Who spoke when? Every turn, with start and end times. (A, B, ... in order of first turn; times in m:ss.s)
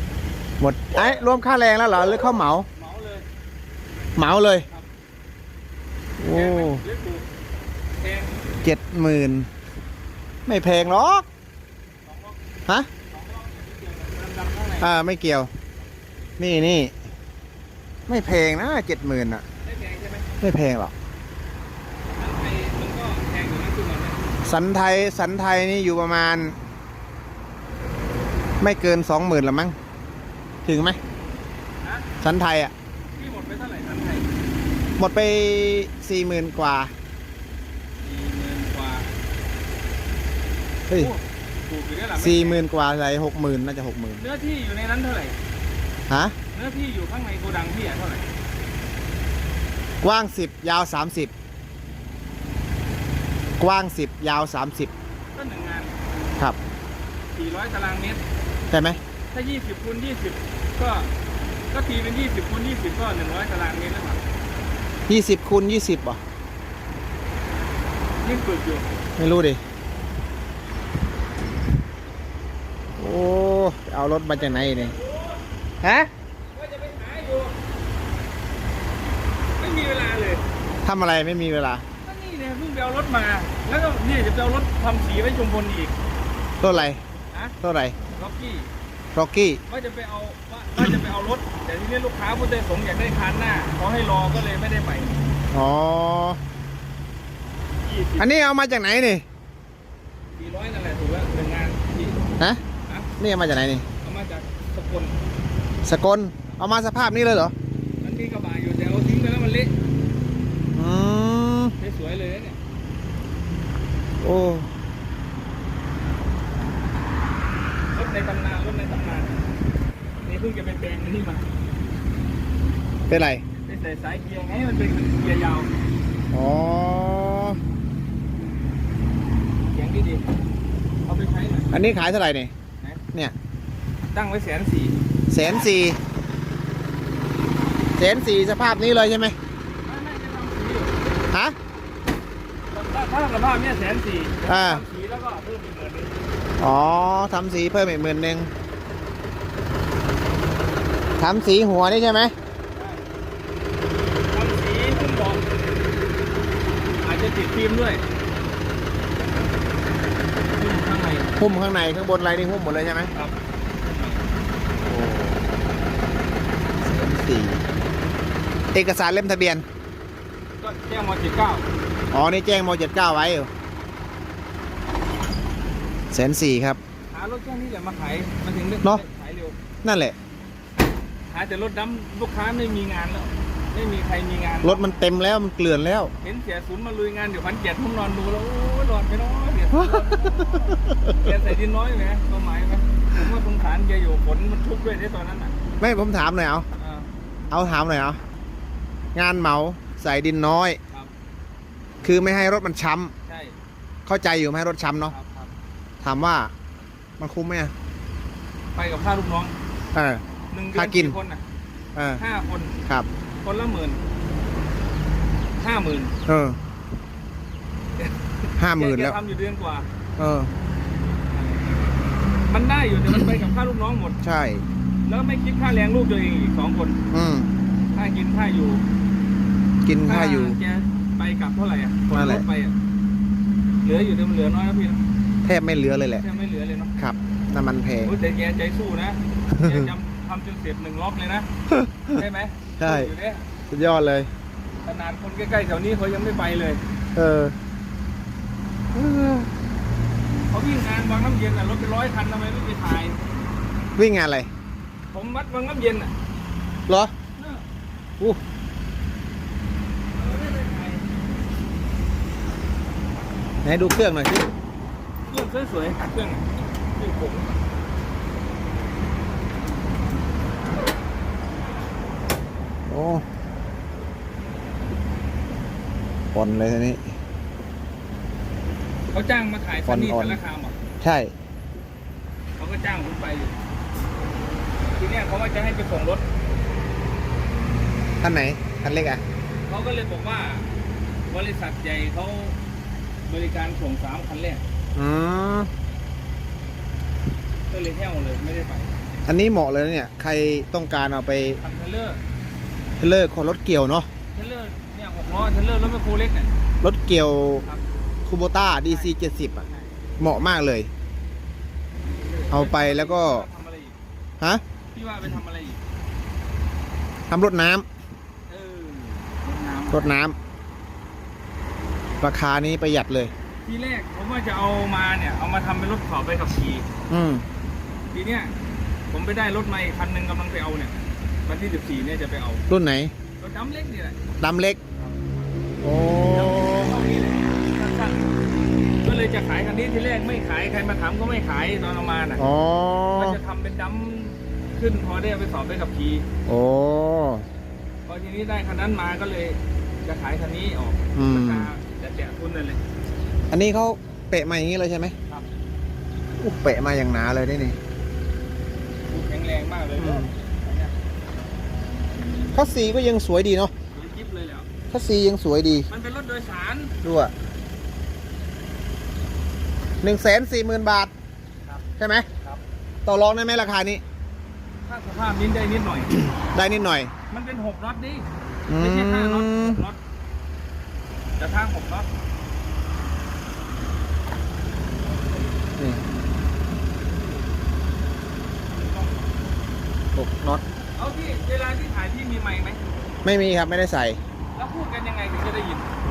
0:00.6-0:02.7 A
0:02.8-0:03.2 B
0:04.2-0:04.6 A
0:06.2-0:06.8 A
0:06.2-0:07.3 B
0:08.0-0:08.4 B
0:08.6-0:09.5 A
0:10.4-0:11.2 A
0:12.0-0:12.4 B
0:13.1-0:14.9 B
0:14.8-0:15.5 A
0:16.4-0:16.9 A
0:18.1-0:19.4 A
0:19.6-0:20.3 B
0:20.4-0:20.9 A
0:22.1-0:24.2 B
0:24.4-0:26.6 A
0:28.6-0:29.8 A
0:30.6-0:31.0 A
0:31.8-0:32.1 B
0:32.2-0:32.7 A
0:33.1-0:34.3 B
0:35.0-0:36.9 A
0:38.0-0:39.1 B
0:40.9-0:42.6 B
0:42.1-0:44.2 A
0:44.2-0:45.4 B
0:46.1-0:46.4 A
0:46.5-0:48.2 B
0:50.0-0:51.3 A
0:53.6-0:54.9 A
0:55.3-0:55.9 B
0:57.3-0:58.2 B
0:58.7-0:59.0 A
0:59.3-1:01.1 B
1:01.7-1:04.2 B
1:05.1-1:06.2 A
1:08.2-1:08.9 B
1:09.2-1:09.6 A
1:13.0-1:15.0 A
1:14.3-1:15.4 B
1:15.8-1:16.1 A
1:16.5-1:17.6 B
1:19.6-1:20.4 B
1:20.8-1:21.8 A
1:22.0-1:25.9 B
1:26.6-1:27.0 A
1:27.6-1:28.0 A
1:28.1-1:28.7 B
1:29.1-1:29.6 A
1:29.7-1:35.2 B
1:35.5-1:36.4 A
1:37.8-1:38.3 B
1:38.2-1:39.2 A
1:40.4-1:42.2 B
1:43.2-1:43.8 A
1:44.0-1:45.1 B
1:45.8-1:47.5 A
1:48.0-1:49.7 B
1:50.7-1:51.7 A
1:51.8-1:52.6 B
1:54.2-1:54.7 A
1:57.9-1:59.3 B
2:00.2-2:01.4 B
2:03.1-2:03.4 A
2:03.6-2:05.7 B
2:06.3-2:07.6 A
2:09.7-2:10.2 B
2:11.0-2:11.8 B
2:11.7-2:12.5 A
2:14.1-2:15.0 B
2:15.3-2:16.0 A
2:18.0-2:19.4 A
2:19.8-2:21.1 B
2:22.7-2:26.1 B
2:24.4-2:24.8 A
2:26.6-2:28.5 A
2:31.2-2:32.3 A
2:32.7-2:33.0 B
2:34.3-2:35.4 B
2:37.0-2:38.0 B
2:40.5-2:41.3 B
2:41.4-2:43.1 A
2:43.1-2:44.2 B
2:44.8-2:45.4 A
2:46.8-2:47.6 A
2:48.7-2:49.6 A
2:50.6-2:51.7 B
2:52.1-2:53.5 A
2:56.1-2:56.8 A
2:57.1-2:59.6 B
2:59.8-3:00.1 A
3:01.3-3:05.0 B
3:04.6-3:06.1 A
3:06.2-3:15.5 B
3:15.8-3:16.7 A
3:16.8-3:17.1 B
3:17.5-3:18.2 A
3:19.1-3:20.8 A
3:22.0-3:23.1 A
3:23.2-3:23.6 B
3:24.0-3:25.1 A
3:25.1-3:25.5 B
3:26.0-3:26.5 A
3:27.2-3:27.7 A
3:28.7-3:29.6 B
3:29.9-3:31.2 A
3:30.5-3:31.4 B
3:31.9-3:32.2 A
3:32.2-3:32.8 B
3:33.4-3:34.0 B
3:35.6-3:36.1 B
3:36.2-3:36.6 A
3:38.6-3:39.2 A
3:38.7-3:39.9 B
3:40.2-3:40.5 A
3:41.3-3:41.8 B
3:42.5-3:44.2 B
3:44.2-3:44.6 A
3:45.0-3:47.0 B
3:47.1-3:47.5 A
3:47.9-3:48.8 B
3:49.8-3:50.6 A
3:50.0-3:52.7 B
3:52.1-3:52.4 A
3:53.8-3:55.0 B
3:55.4-3:56.2 A
3:56.1-3:56.9 B
3:57.0-3:58.1 A
3:58.0-4:01.5 B
3:59.5-3:59.9 A
4:01.7-4:02.2 A
4:02.1-4:03.4 B
4:02.8-4:03.1 A
4:03.7-4:04.3 A
4:04.8-4:06.8 B
4:07.1-4:07.5 A
4:08.9-4:09.5 A
4:10.5-4:13.2 B
4:14.0-4:14.5 A
4:15.1-4:16.1 B
4:16.9-4:17.1 A
4:17.4-4:17.6 B
4:20.1-4:21.0 B
4:23.6-4:24.5 A
4:25.3-4:27.5 B
4:32.9-4:33.2 A
4:36.3-4:37.2 A
4:39.1-4:40.7 B
4:39.8-4:40.4 A
4:41.0-4:41.3 A
4:42.6-4:43.5 B
4:45.0-4:46.2 B
4:48.2-4:49.2 A
4:49.7-4:50.7 B
4:51.3-4:52.6 B
4:53.2-4:54.6 B
4:55.0-4:55.7 A
4:57.7-4:58.9 B
4:59.3-5:01.6 A
5:01.6-5:02.2 B
5:03.0-5:04.1 A
5:04.3-5:06.5 B
5:06.8-5:07.6 A
5:08.3-5:09.6 A
5:08.8-5:09.9 B
5:10.2-5:10.9 A
5:12.0-5:14.0 B
5:12.5-5:13.5 A
5:14.9-5:15.8 B
5:17.3-5:17.8 A
5:18.5-5:20.2 B
5:19.9-5:20.3 A
5:22.2-5:23.3 A
5:23.6-5:26.9 B
5:27.1-5:27.4 A
5:28.1-5:28.5 B
5:29.1-5:32.6 B
5:32.7-5:33.1 A
5:33.4-5:34.2 B
5:34.4-5:34.8 A
5:35.8-5:37.0 A
5:36.0-5:38.3 B
5:38.8-5:42.4 B
5:42.4-5:43.4 A
5:43.2-5:46.2 B
5:46.4-5:47.4 A
5:48.0-5:52.8 B
5:51.1-5:51.7 A
5:53.5-5:55.1 A
5:56.4-5:57.8 A
5:59.1-6:00.9 B
6:00.0-6:00.3 A
6:02.5-6:03.7 A
6:03.9-6:04.7 B
6:04.9-6:05.9 A
6:05.9-6:06.9 B
6:07.0-6:07.3 A
6:10.0-6:11.1 A
6:12.0-6:12.3 A
6:13.0-6:14.0 A
6:14.8-6:16.2 B
6:16.5-6:17.1 A
6:17.3-6:20.0 B
6:18.7-6:19.8 A
6:21.4-6:22.1 B
6:28.7-6:29.2 B
6:30.1-6:30.6 A
6:31.0-6:32.8 B
6:33.2-6:34.2 A
6:34.5-6:35.9 B